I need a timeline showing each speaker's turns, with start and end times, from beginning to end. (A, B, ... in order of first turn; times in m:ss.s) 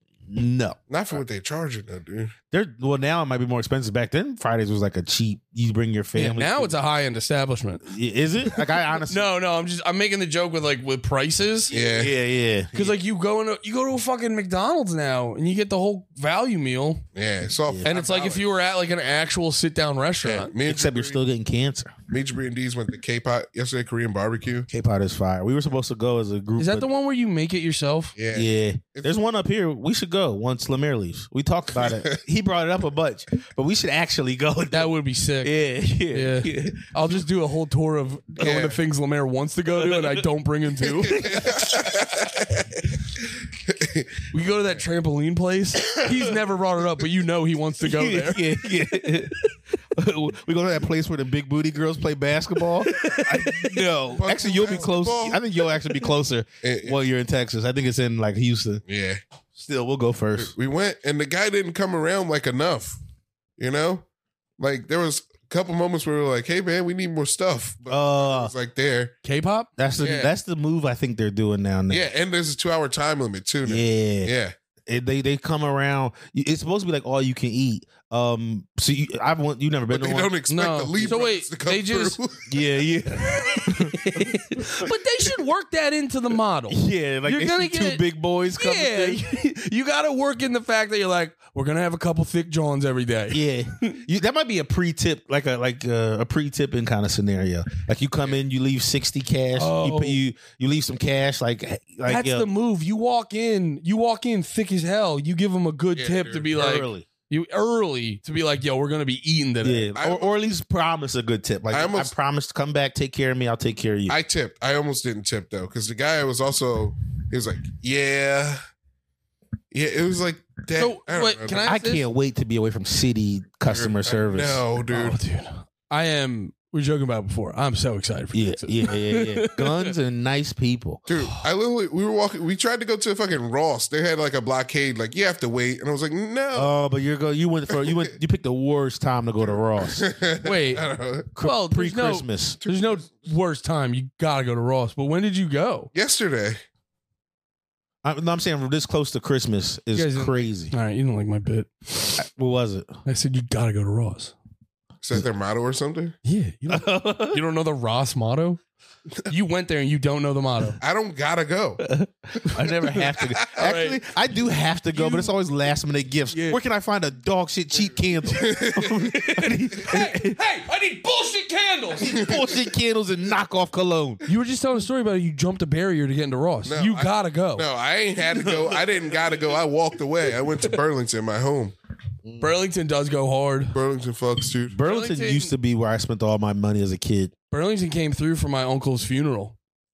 0:00.3-0:01.2 A
0:00.9-0:02.4 B
0:02.5-0:06.8 A
0:06.2-0:07.9 C
0:07.8-0:09.3 A
0:08.5-0:11.8 C
0:11.7-0:12.1 B
0:12.0-0:13.0 A
0:12.7-0:17.0 C
0:17.1-0:18.5 B
0:17.8-0:20.5 C
0:20.2-0:21.2 B
0:20.6-0:21.9 A
0:22.1-0:24.7 B
0:24.7-0:26.9 A
0:26.6-0:28.1 C
0:28.2-0:29.2 B
0:28.3-0:36.9 A
0:31.7-0:32.2 B
0:34.7-0:35.5 C
0:36.1-0:41.2 C
0:38.4-0:38.8 B
0:39.8-0:40.3 A
0:41.1-0:42.6 B
0:41.1-0:42.2 A
0:43.6-0:44.3 B
0:44.3-0:48.5 C
0:47.8-0:58.8 A
0:54.1-0:55.4 B
0:56.6-0:57.0 B
0:58.9-0:59.2 B
0:59.6-1:00.5 A
1:00.4-1:03.0 B
1:03.6-1:04.0 B
1:04.6-1:09.1 B
1:07.9-1:08.5 A
1:09.2-1:09.7 C
1:09.8-1:12.1 A
1:10.0-1:10.3 B
1:11.9-1:14.5 B
1:13.6-1:14.3 A
1:14.9-1:20.3 A
1:19.9-1:22.5 B
1:20.5-1:22.2 C
1:22.5-1:24.7 A
1:23.3-1:34.0 C
1:26.7-1:29.3 A
1:33.3-1:42.5 A
1:39.6-1:40.2 C
1:42.1-1:49.9 C
1:46.0-1:46.7 B
1:46.5-1:47.1 A
1:49.6-1:54.1 A
1:50.0-1:50.3 B
1:51.7-1:52.1 B
1:54.1-1:58.6 B
1:59.7-2:01.7 B
2:00.8-2:02.1 C
2:01.6-2:04.6 A
2:03.7-2:05.2 B
2:04.9-2:09.9 C
2:08.3-2:11.0 A
2:11.1-2:16.7 B
2:11.2-2:11.4 C
2:16.6-2:20.0 A
2:17.7-2:18.1 B
2:19.8-2:21.3 B
2:20.4-2:20.8 C
2:21.4-2:22.6 A
2:21.4-2:25.9 C
2:22.6-2:23.1 B
2:25.9-2:26.6 B
2:28.0-2:30.7 A
2:30.0-2:32.2 C
2:32.2-2:32.9 A
2:33.1-2:34.4 C
2:35.0-2:36.2 B
2:36.2-2:38.6 C
2:36.7-2:37.4 A
2:39.3-2:40.8 C
2:40.8-2:43.6 B
2:41.8-2:50.4 A
2:43.6-2:44.0 C
2:44.9-2:45.3 C
2:46.3-2:46.6 C
2:48.3-2:49.1 B
2:49.1-2:52.2 C
2:52.0-2:54.3 A
2:52.1-2:52.6 B
2:54.3-2:57.6 C
2:56.6-3:01.7 B
2:58.3-2:58.8 A
3:02.2-3:02.5 A
3:02.4-3:03.7 C
3:03.7-3:04.8 B
3:04.7-3:07.3 A
3:04.8-3:05.5 C
3:07.5-3:09.6 C